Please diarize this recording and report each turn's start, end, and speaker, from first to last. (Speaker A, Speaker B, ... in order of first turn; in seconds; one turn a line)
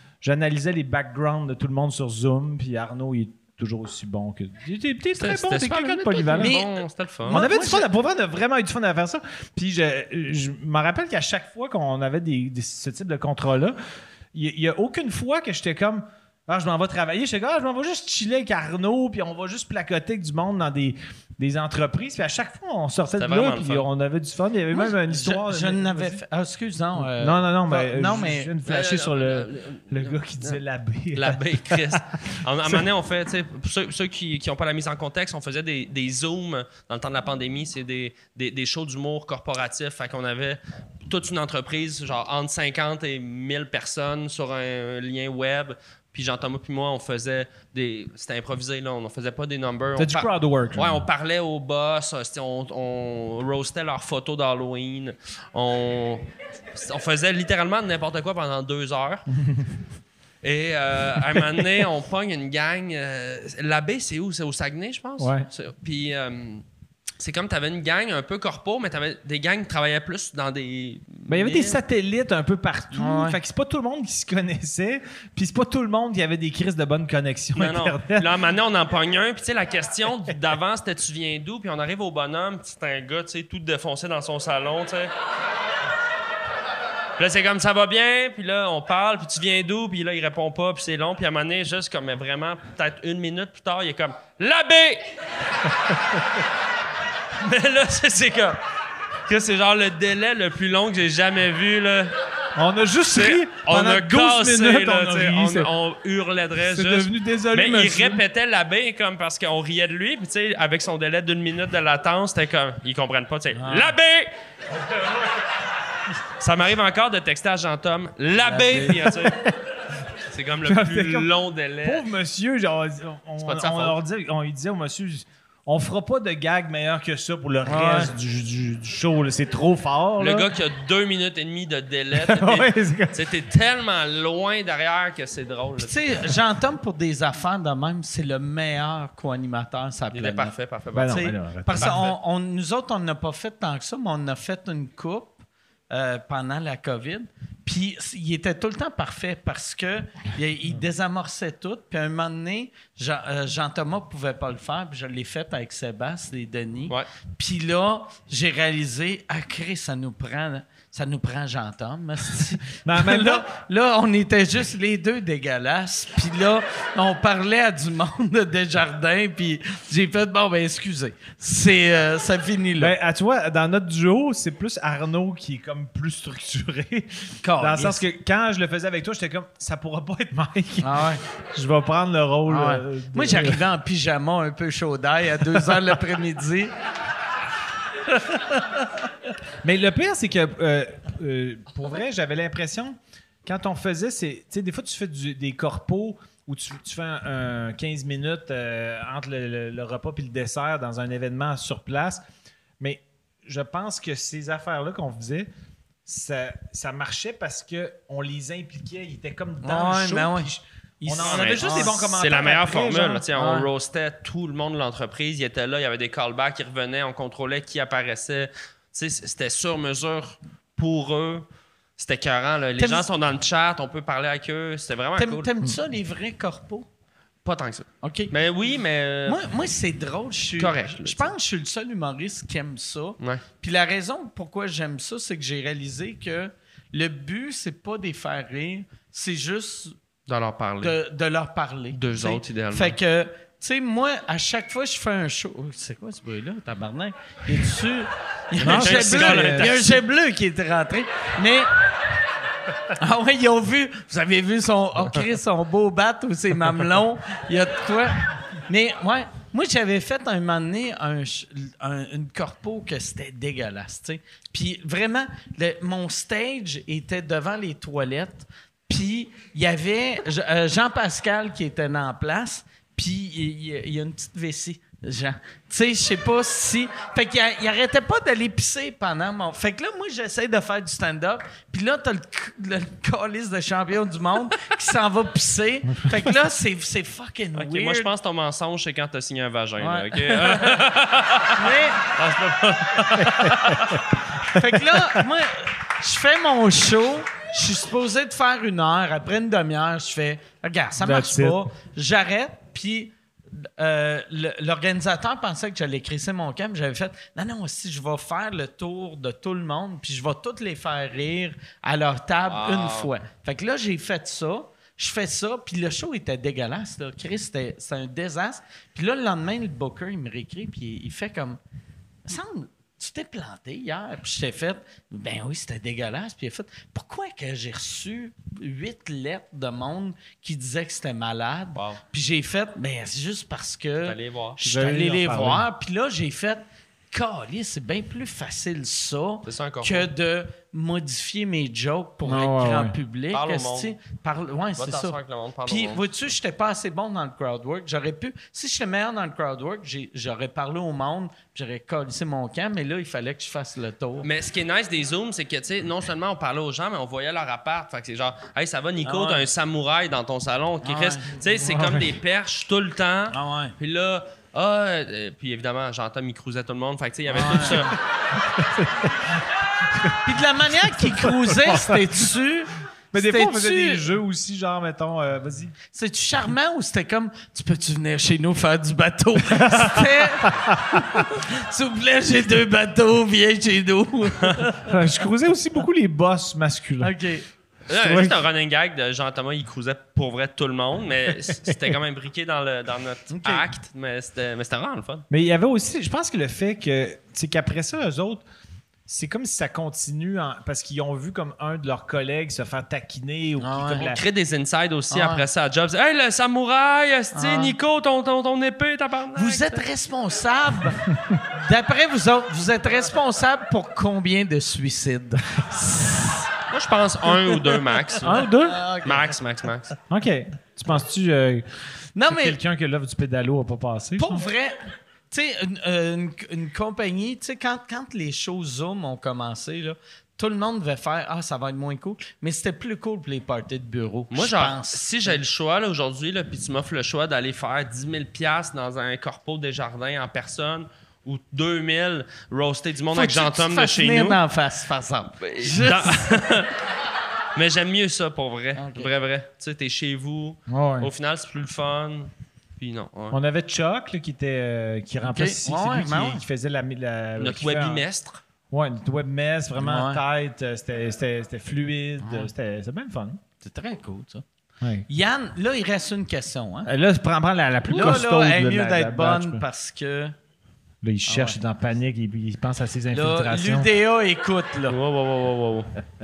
Speaker A: 0.2-6.6
Speaker B: 5.2-7.4
Speaker C: 6.4-6.7
Speaker C: 7.3-7.9
Speaker A: 7.3-13.8
Speaker A: 14.3-26.2
Speaker B: 23.2-23.9
Speaker C: 24.7-28.5
Speaker A: 27.0-32.0
Speaker B: 28.7-30.6
Speaker B: 31.1-59.3
Speaker A: 50.0-51.0
Speaker B: 60.4-66.6
Speaker A: 65.2-65.5
Speaker B: 67.2-71.8
Speaker A: 71.3-78.3
Speaker C: 72.9-73.4
Speaker B: 77.5-85.1
Speaker B: 87.2-95.0
Speaker B: 97.4-98.6
Speaker B: 99.3-102.1
Speaker A: 102.6-105.7
Speaker B: 103.1-114.3
Speaker A: 106.6-108.2
Speaker C: 113.6-114.0
Speaker B: 116.4-119.5
Speaker C: 118.5-118.8
Speaker A: 118.6-119.5
Speaker B: 120.3-122.0
Speaker A: 120.7-121.3
Speaker A: 121.8-130.5
Speaker B: 123.4-124.0
Speaker C: 127.7-128.1
Speaker B: 130.2-136.0
Speaker A: 132.1-133.2
Speaker C: 135.8-140.6
Speaker B: 140.1-142.1
Speaker A: 140.9-142.1
Speaker C: 141.1-172.9
Speaker A: 162.8-163.4
Speaker A: 172.8-183.6
Speaker C: 177.4-178.0
Speaker C: 180.8-181.2
Speaker C: 182.5-186.7
Speaker A: 189.6-202.2
Speaker A: 202.8-205.5
Speaker A: 206.1-213.3
Speaker C: 209.6-210.5
Speaker C: 211.0-212.0
Speaker B: 211.2-221.4
Speaker C: 213.3-213.7
Speaker B: 222.0-225.5
Speaker C: 222.8-223.1
Speaker C: 225.2-226.9
Speaker B: 227.4-229.4
Speaker C: 228.0-228.3
Speaker C: 229.3-240.0
Speaker B: 230.6-231.3
Speaker B: 240.3-240.9
Speaker C: 240.8-251.7
Speaker B: 241.9-243.0
Speaker A: 248.6-249.8
Speaker B: 248.6-250.0
Speaker C: 253.0-288.1
Speaker A: 285.9-286.4
Speaker B: 287.6-294.0
Speaker C: 289.8-290.8
Speaker C: 291.5-292.1
Speaker A: 293.2-294.0
Speaker C: 294.5-321.6
Speaker A: 301.0-301.6
Speaker B: 312.5-313.1
Speaker C: 322.3-354.3
Speaker B: 334.1-334.6
Speaker A: 334.6-335.7
Speaker B: 339.5-340.1
Speaker A: 342.2-342.9
Speaker B: 343.3-343.9
Speaker B: 344.8-346.1
Speaker B: 354.2-368.0
Speaker C: 359.0-359.5
Speaker C: 360.8-361.3
Speaker A: 361.6-362.1
Speaker C: 363.3-363.7
Speaker C: 367.3-367.9
Speaker A: 368.4-369.3
Speaker A: 369.9-370.2
Speaker C: 370.2-374.1
Speaker A: 370.9-372.1
Speaker A: 373.1-375.8
Speaker C: 375.9-384.7
Speaker A: 379.5-381.2
Speaker A: 384.8-387.1
Speaker C: 387.0-387.5
Speaker B: 387.9-395.2
Speaker A: 387.9-388.4
Speaker C: 393.3-393.7
Speaker A: 395.3-398.4
Speaker A: 399.1-404.2
Speaker C: 403.6-404.1
Speaker B: 404.0-409.9
Speaker C: 405.1-405.4
Speaker C: 407.3-407.7
Speaker C: 409.4-416.5
Speaker B: 416.7-418.5
Speaker A: 418.2-418.8
Speaker C: 418.6-419.3
Speaker B: 419.0-419.9
Speaker A: 420.1-421.7
Speaker C: 422.1-422.6
Speaker A: 422.3-424.5
Speaker C: 424.2-435.4
Speaker B: 434.3-444.4
Speaker C: 443.1-446.4
Speaker B: 445.4-446.7
Speaker B: 447.6-453.4
Speaker C: 448.8-449.1
Speaker A: 450.7-451.1
Speaker A: 453.3-458.1
Speaker C: 455.2-456.4
Speaker B: 457.4-458.4
Speaker A: 458.7-463.4
Speaker C: 459.8-460.2
Speaker C: 462.2-462.5
Speaker C: 463.6-464.4
Speaker A: 464.8-465.1
Speaker C: 465.1-466.9
Speaker A: 466.9-469.6
Speaker C: 467.9-470.4
Speaker A: 471.0-473.9
Speaker C: 471.3-471.6
Speaker C: 473.1-475.0
Speaker B: 474.9-476.0